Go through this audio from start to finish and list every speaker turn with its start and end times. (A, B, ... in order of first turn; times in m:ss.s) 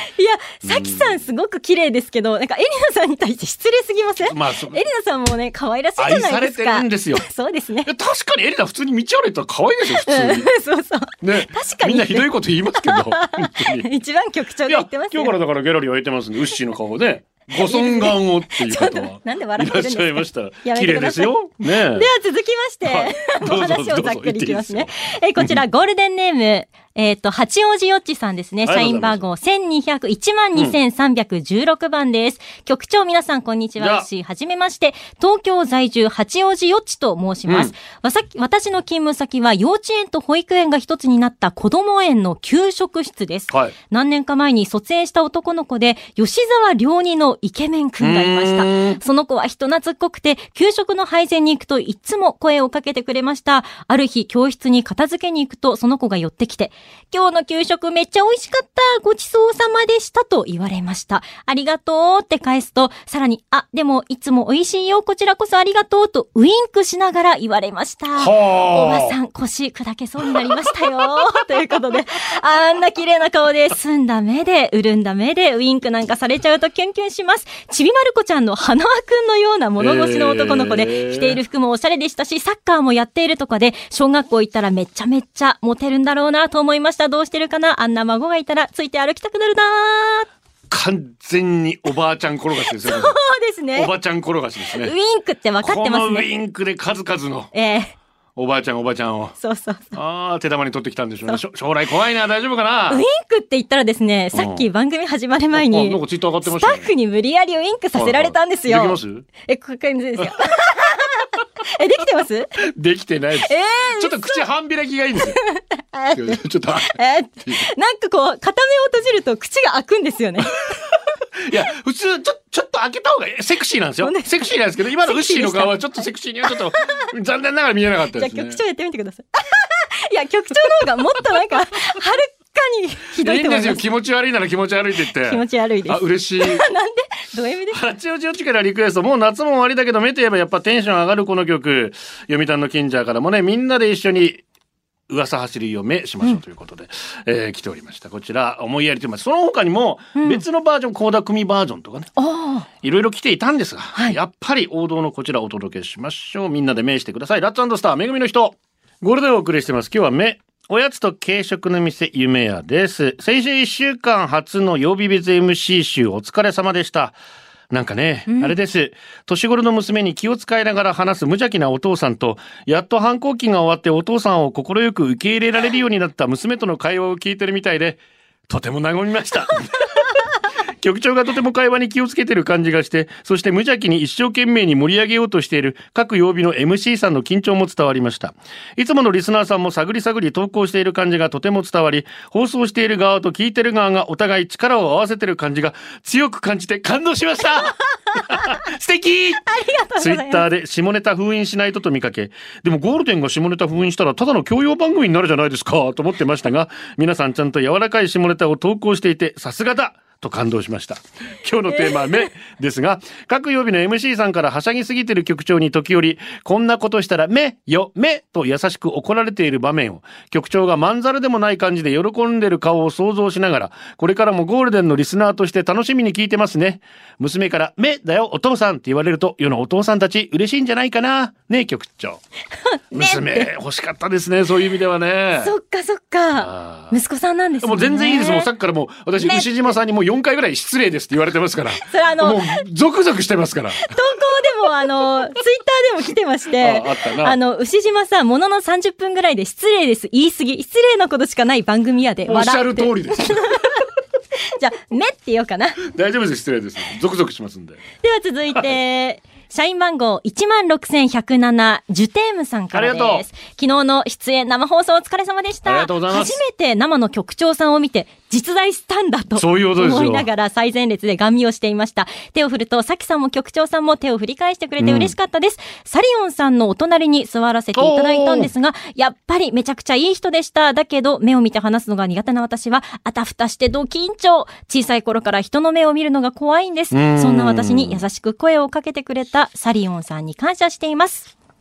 0:00.2-0:07.9 A
0:00.6-0:01.2 B
0:04.2-0:04.8 B
0:06.0-0:07.2 B
0:07.8-0:10.5 B
0:10.0-0:12.3 A
0:11.2-0:13.9 B
0:12.8-0:15.3 A
0:14.7-0:22.1 B
0:17.6-1:30.3 A
0:22.8-0:25.6 B
0:28.6-0:29.3 B
0:33.8-0:34.1 B
0:37.5-0:37.7 B
0:43.5-0:43.8 B
0:48.0-0:49.0 B
1:08.2-1:09.2 B
1:10.4-1:11.4 B
1:19.8-1:21.4 B
1:30.7-1:33.2 B
1:32.8-1:33.9 A
1:33.7-1:34.9 B
1:34.7-1:36.3 A
1:35.6-1:37.5 B
1:37.5-1:37.9 A
1:38.4-1:39.4 B
1:39.4-1:40.0 A
1:39.9-1:43.0 B
1:42.9-1:52.5 A
1:44.3-1:44.7 B
1:45.5-1:46.9 B
1:48.0-1:49.3 B
1:52.6-1:55.4 B
1:53.5-1:54.4 A
1:55.4-2:00.6 A
1:56.1-1:57.6 B
2:00.9-2:08.6 B
2:04.0-2:04.3 A
2:05.0-2:07.1 A
2:08.2-2:13.8 A
2:13.2-2:16.7 B
2:15.2-2:17.8 A
2:17.7-2:24.4 B
2:25.1-2:32.1 B
2:30.2-2:30.4 A
2:32.2-2:32.7 A
2:32.8-2:47.2 B
2:47.7-3:00.1 B
2:48.3-2:48.5 A
3:00.8-3:19.4 B
3:19.5-3:20.4 A
3:20.0-3:52.2 B
3:31.7-3:32.3 A
3:52.7-3:53.5 A
3:52.9-3:55.5 B
3:55.4-3:58.5 A
3:56.4-3:57.0 B
3:57.6-4:03.9 B
3:59.2-3:59.5 A
4:01.8-4:02.6 A
4:03.8-4:13.9 A
4:06.6-4:07.4 B
4:12.3-4:13.8 B
4:14.5-4:15.8 A
4:15.8-4:17.8 B
4:18.0-4:51.3 A
4:22.7-4:23.3 B
4:25.6-4:26.4 B
4:29.4-4:30.3 B
4:34.8-4:35.2 B
4:37.8-4:38.5 B
4:46.9-4:48.0 B